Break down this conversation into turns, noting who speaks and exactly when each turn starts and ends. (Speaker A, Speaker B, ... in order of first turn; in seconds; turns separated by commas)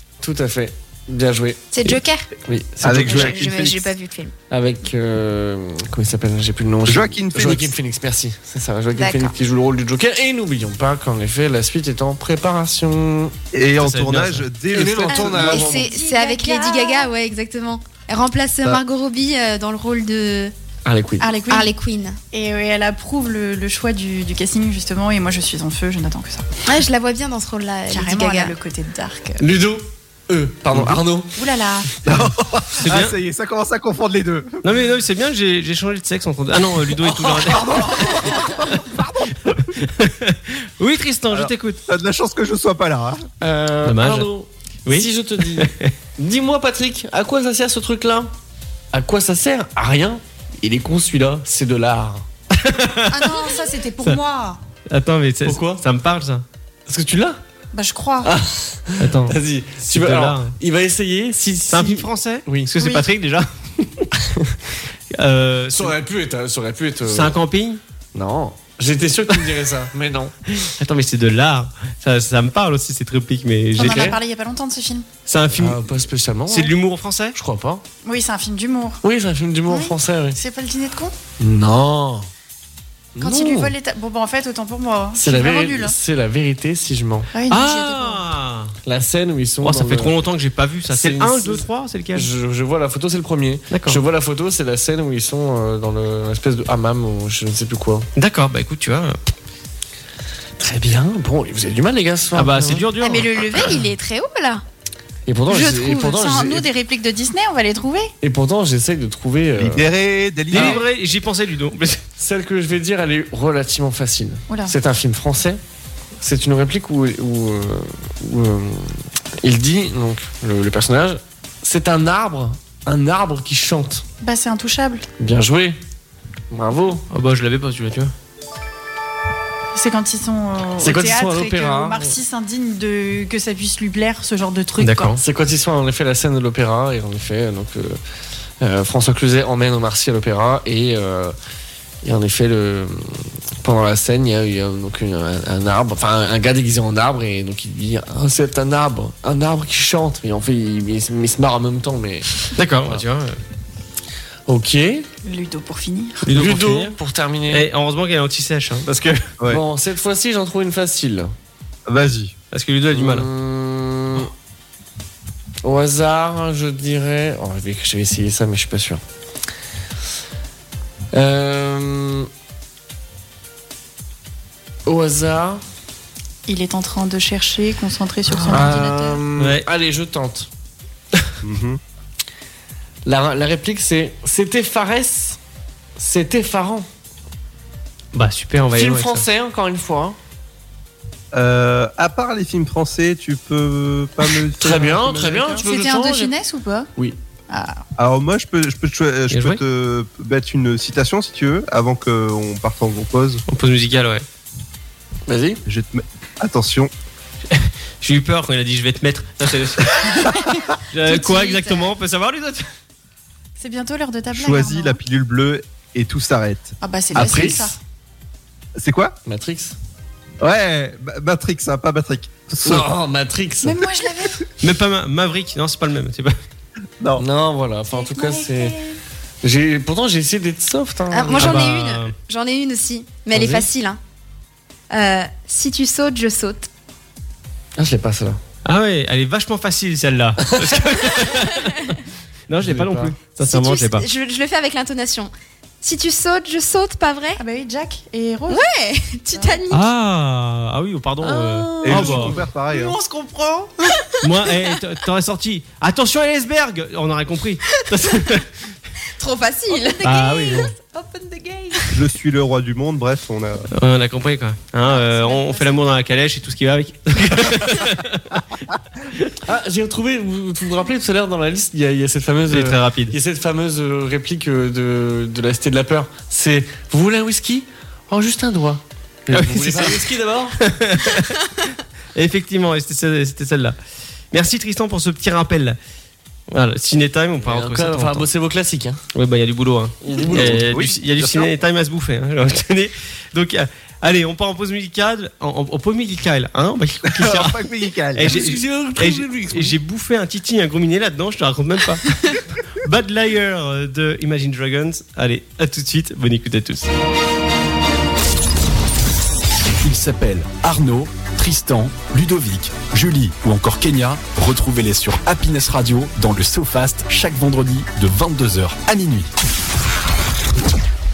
Speaker A: 0.2-1.7, Speaker B: 1.7-2.3, Speaker A: 2.5-3.5, Speaker C: 2.8-3.9, Speaker B: 2.9-4.3, Speaker A: 4.5-13.3, Speaker C: 6.9-7.7, Speaker B: 8.9-9.3, Speaker C: 13.5-15.7, Speaker D: 13.8-14.5, Speaker A: 14.7-15.9, Speaker B: 15.1-20.5, Speaker E: 15.4-17.1, Speaker A: 20.9-21.3, Speaker E: 21.2-21.7, Speaker B: 21.5-22.2, Speaker E: 22.3-26.5, Speaker B: 26.7-28.6, Speaker E: 27.9-29.4, Speaker A: 29.4-31.4, Speaker E: 31.3-31.9, Speaker C: 32.0-34.6, Speaker D: 32.8-33.2, Speaker D: 34.6-38.1, Speaker A: 37.3-37.8, Speaker C: 37.4-39.4, Speaker D: 39.7-41.8, Speaker C: 41.3-43.3, Speaker A: 43.4-48.3, Speaker D: 43.8-44.3, Speaker D: 44.9-45.9, Speaker A: 48.9-52.2, Speaker D: 52.5-54.2, Speaker E: 53.1-54.6, Speaker D: 54.9-56.5, Speaker A: 55.5-55.8, Speaker A: 56.9-57.4, Speaker E: 57.7-58.3, Speaker A: 58.2-62.7, Speaker D: 59.0-60.5, Speaker D: 61.7-64.1, Speaker E: 62.8-63.1, Speaker D: 65.1-66.0, Speaker A: 65.7-67.4, Speaker D: 67.0-67.8, Speaker A: 68.2-70.4, Speaker D: 70.5-74.2, Speaker E: 73.8-75.1, Speaker A: 73.8-74.2, Speaker D: 75.3-75.8, Speaker A: 75.6-76.7, Speaker D: 76.5-77.4, Speaker A: 77.3-77.8, Speaker E: 78.0-79.0, Speaker A: 79.0-80.4, Speaker E: 79.7-81.2, Speaker A: 81.4-82.3, Speaker A: 83.2-83.8, Speaker E: 83.2-86.0, Speaker A: 85.2-87.3, Speaker E: 87.3-88.0, Speaker D: 87.5-88.8, Speaker A: 88.9-90.2, Speaker D: 89.6-92.3, Speaker A: 90.9-98.1, Speaker D: 93.7-94.0, Speaker D: 98.2-99.2, Speaker A: 100.6-102.9, Speaker D: 102.3-103.7, Speaker B: 103.0-104.6, Speaker A: 105.3-106.7, Speaker E: 105.6-108.1, Speaker A: 108.2-109.9, Speaker C: 109.6-110.8, Speaker A: 110.5-110.8, Speaker D: 110.5-112.1, Speaker A: 112.2-115.6, Speaker E: 114.5-114.8, Speaker A: 116.2-124.0, Speaker E: 124.2-125.1, Speaker A: 125.2-125.8, Speaker A: 126.5-127.0, Speaker D: 127.1-128.1, Speaker E: 129.7-135.1, Speaker A: 130.8-132.2, Speaker D: 134.8-135.2, Speaker A: 135.2-138.0, Speaker A: 138.6-141.4, Speaker A: 142.0-152.3, Speaker D: 152.6-153.4, Speaker A: 154.5-155.1, Speaker E: 155.2-156.2, Speaker D: 156.2-157.0, Speaker A: 156.3-157.7, Speaker D: 157.5-159.3, Speaker A: 159.5-161.3, Speaker C: 161.9-162.3, Speaker D: 162.5-163.3, Speaker A: 162.9-164.3, Speaker A: 165.6-169.0, Speaker A: 171.1-172.3, Speaker A: 174.9-175.6, Speaker E: 176.5-179.2, Speaker A: 178.3-180.5, Speaker D: 179.4-179.6, Speaker C: 181.4-181.8, Speaker A: 183.1-185.4, Speaker A: 186.0-186.9, Speaker D: 188.1-189.3, Speaker A: 188.7-190.2, Speaker C: 191.3-195.7, Speaker A: 194.6-196.3, Speaker E: 195.6-196.9, Speaker E: 197.5-197.8, Speaker C: 198.0-203.4, Speaker D: 199.3-199.6, Speaker D: 203.5-204.2, Speaker A: 205.3-205.6, Speaker C: 205.7-206.9, Speaker D: 207.5-212.7, Speaker E: 211.1-211.8, Speaker E: 213.6-215.0, Speaker C: 214.3-217.5, Speaker E: 216.8-217.8, Speaker A: 217.1-217.7, Speaker C: 218.8-219.2, Speaker A: 219.3-219.8, Speaker C: 220.4-222.9, Speaker A: 222.6-223.8, Speaker E: 223.6-224.4, Speaker D: 224.6-226.3, Speaker A: 227.2-228.8, Speaker E: 227.9-229.0, Speaker A: 229.4-231.7, Speaker B: 231.1-234.0, Speaker D: 231.3-232.1, Speaker A: 233.3-233.7, Speaker B: 234.9-236.7, Speaker A: 237.8-238.4, Speaker D: 238.7-244.1, Speaker A: 240.5-241.2, Speaker A: 242.6-243.1, Speaker B: 243.4-245.3, Speaker B: 245.8-247.4, Speaker E: 247.4-248.7, Speaker B: 248.5-249.8, Speaker E: 249.3-249.7, Speaker D: 249.7-252.4, Speaker A: 251.2-252.3, Speaker C: 251.8-253.0, Speaker E: 252.7-253.7, Speaker D: 254.2-258.5, Speaker B: 259.2-260.7, Speaker D: 260.0-260.7, Speaker E: 260.7-261.8, Speaker C: 261.9-263.7, Speaker D: 263.7-268.4, Speaker E: 264.9-265.7, Speaker D: 269.1-269.3, Speaker A: 269.4-280.6, Speaker D: 272.5-273.2, Speaker D: 279.3-280.1, Speaker D: 280.6-281.4, Speaker D: 282.1-283.8, Speaker D: 284.3-285.8, Speaker D: 286.5-288.3, Speaker A: 287.4-289.0, Speaker D: 289.1-306.9, Speaker A: 290.0-290.8, Speaker C: 290.3-291.5, Speaker C: 297.1-298.6, Speaker A: 298.2-299.8, Speaker F: 309.8-319.3